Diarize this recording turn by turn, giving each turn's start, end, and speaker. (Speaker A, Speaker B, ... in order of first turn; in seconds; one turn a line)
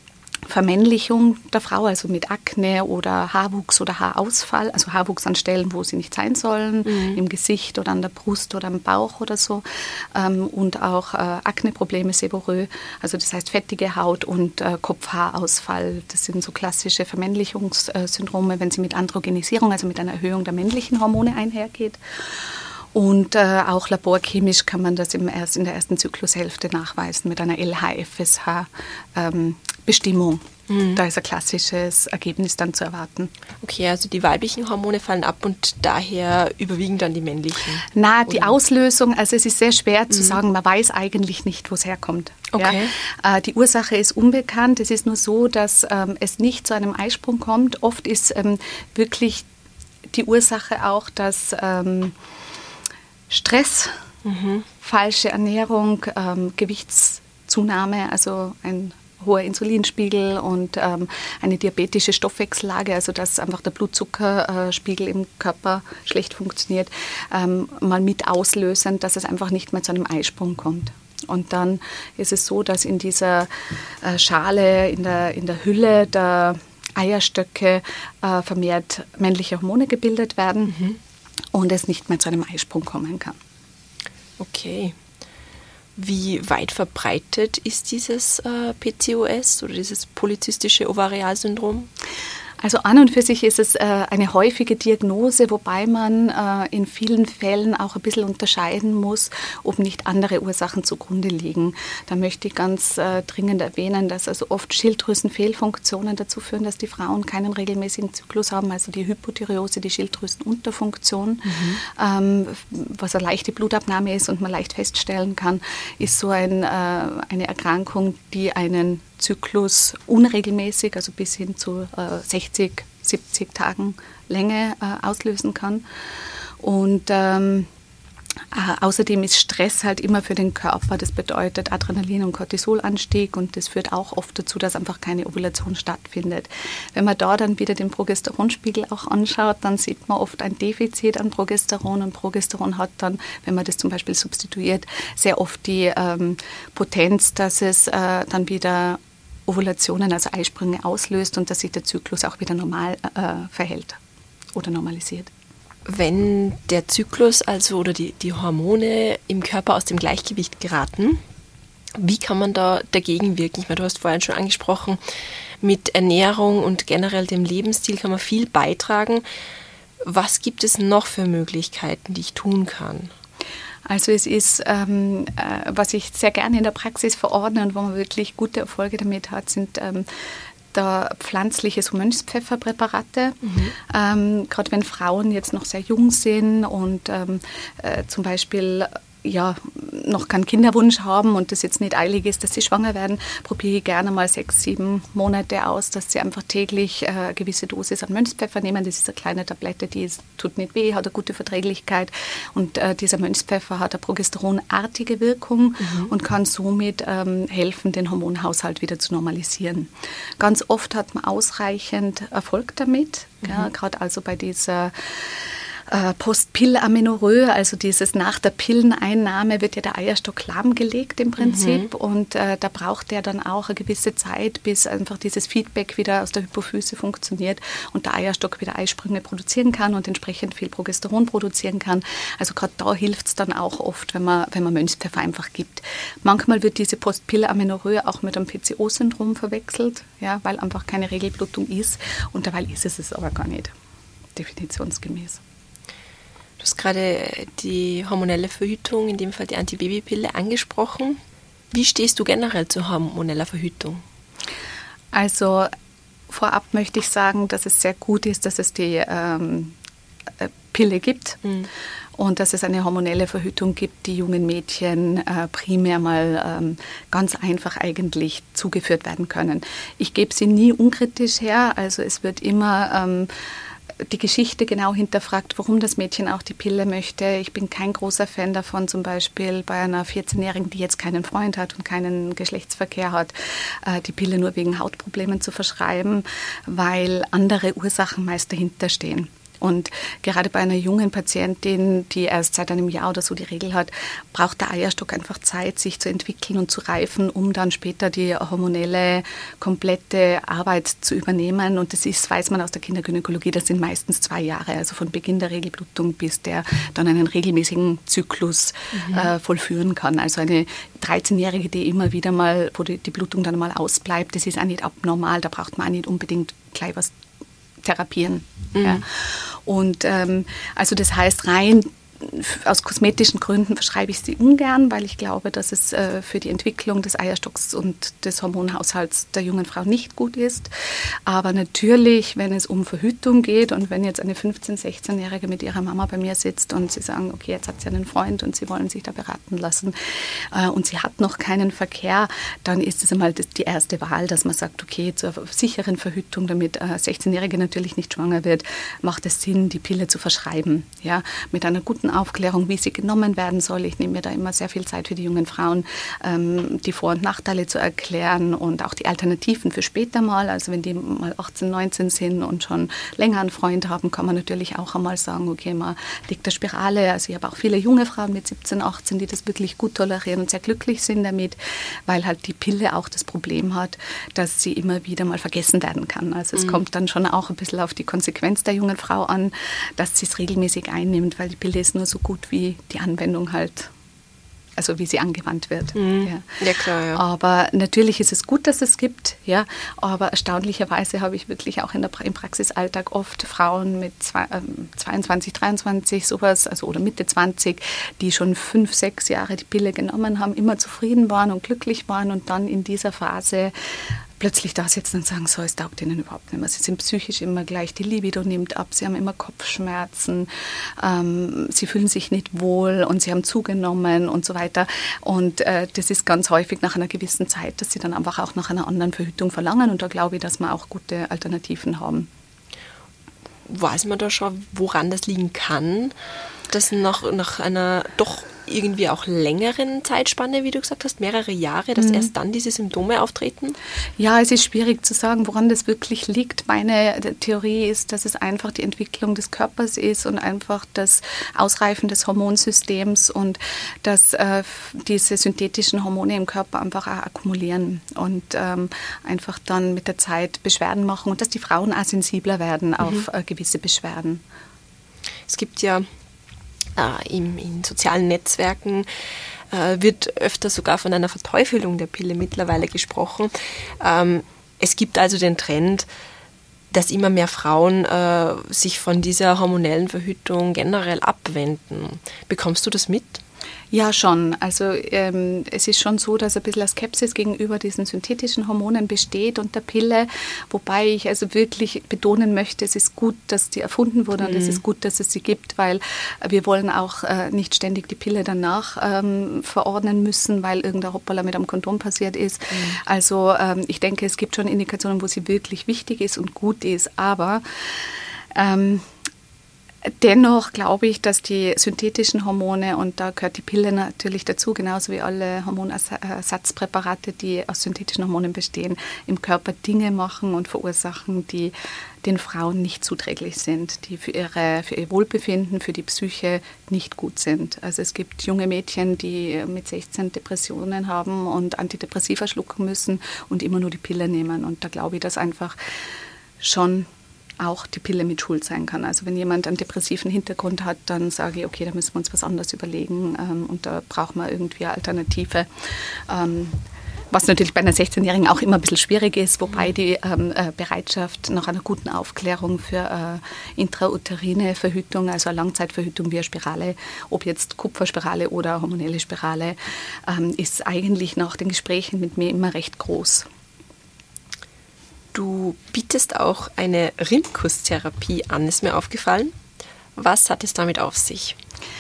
Speaker A: 0.5-9.6
Speaker B: 6.8-7.2
Speaker A: 10.1-22.0
Speaker A: 22.9-33.3
Speaker B: 30.7-31.0
Speaker B: 33.6-38.5
Speaker A: 37.9-49.4
Speaker B: 40.1-40.4
Speaker B: 42.5-42.9
Speaker A: 50.1-52.1
Speaker A: 53.3-54.0
Speaker B: 54.2-54.6
Speaker A: 54.8-73.5
Speaker A: 74.0-80.8
Speaker B: 80.7-81.0
Speaker A: 81.5-83.3
Speaker B: 84.4-84.9
Speaker B: 86.0-91.9
Speaker A: 92.6-125.8
Speaker B: 111.4-111.8
Speaker A: 126.6-127.7
Speaker A: 128.5-154.0
Speaker A: 154.5-155.3
Speaker B: 155.9-161.2
Speaker B: 161.9-165.0
Speaker B: 165.6-169.2
Speaker B: 170.0-173.1
Speaker A: 173.8-180.1
Speaker A: 180.7-243.7
Speaker B: 183.4-183.7
Speaker B: 205.8-206.1
Speaker B: 221.4-221.9
Speaker A: 244.3-245.4
Speaker B: 246.6-251.2
Speaker B: 251.7-254.0
Speaker A: 255.1-255.7
Speaker A: 256.3-259.7
Speaker A: 260.4-261.4
Speaker A: 262.2-273.3
Speaker A: 274.1-317.1
Speaker B: 308.9-309.3
Speaker A: 317.8-330.7
Speaker B: 318.7-319.0
Speaker A: 331.2-371.6
Speaker A: 372.1-383.9
Speaker A: 384.8-386.5
Speaker B: 385.9-387.2
Speaker A: 387.1-403.7
Speaker A: 404.4-410.5
Speaker A: 411.0-422.3
Speaker B: 423.7-426.1
Speaker B: 426.7-433.8
Speaker A: 432.0-432.3
Speaker A: 434.2-454.4
Speaker B: 455.5-456.1
Speaker B: 456.9-459.1
Speaker B: 459.7-466.1
Speaker B: 466.9-473.4
Speaker A: 473.9-499.1
Speaker B: 484.4-484.8
Speaker B: 492.7-493.0
Speaker A: 500.1-525.8
Speaker A: 526.6-527.1
Speaker A: 527.6-535.7
Speaker A: 536.3-536.8
Speaker A: 537.3-549.8
Speaker A: 550.3-553.5
Speaker B: 555.3-559.5
Speaker B: 560.1-561.6